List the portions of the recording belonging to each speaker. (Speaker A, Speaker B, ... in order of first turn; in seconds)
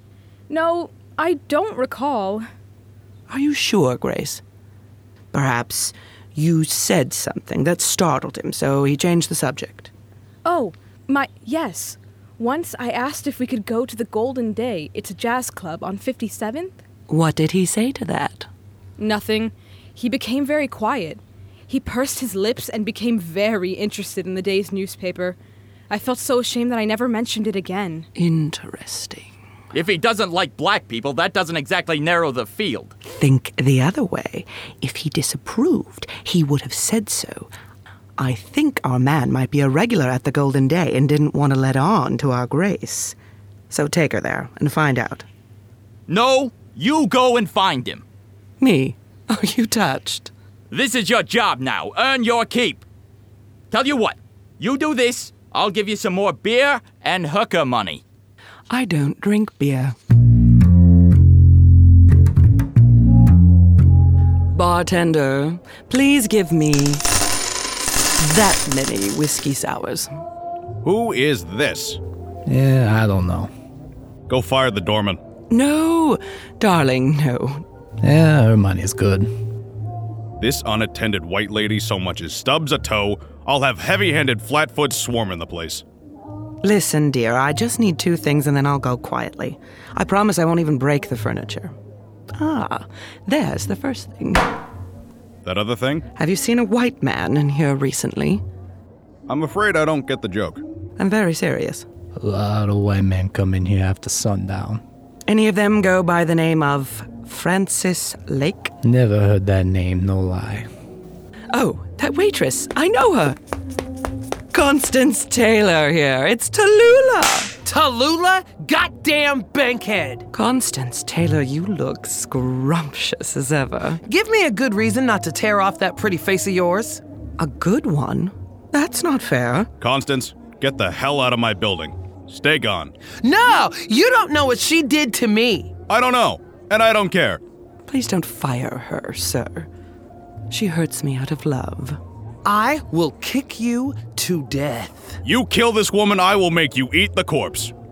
Speaker A: 0.5-2.5, 10.4-16.8, 19.0-25.4, 25.9-28.1
Speaker B: 3.3-4.4, 5.3-9.9, 17.1-18.5, 28.1-29.3, 33.0-37.5, 38.2-43.2, 43.7-45.3, 48.6-50.3, 58.7-60.0, 64.5-67.0, 68.2-70.1, 75.5-77.6, 86.6-91.8, 92.4-94.5, 96.2-98.4, 101.0-101.9, 105.3-108.7, 111.5-113.4, 114.5-117.6, 120.3-124.0, 127.4-129.7, 137.9-139.7, 140.5-142.0
Speaker C: 29.7-32.9, 46.1-48.0, 50.7-52.8, 53.7-58.0
Speaker D: 70.8-72.0, 74.3-75.2, 80.4-85.8, 95.5-96.0, 99.3-100.6, 129.8-132.9, 135.9-137.4, 145.2-147.7
Speaker E: 72.5-73.5, 78.0-79.3, 102.2-104.8, 108.8-110.7
Speaker F: 117.6-120.3, 124.0-127.0, 133.2-135.7, 142.4-145.2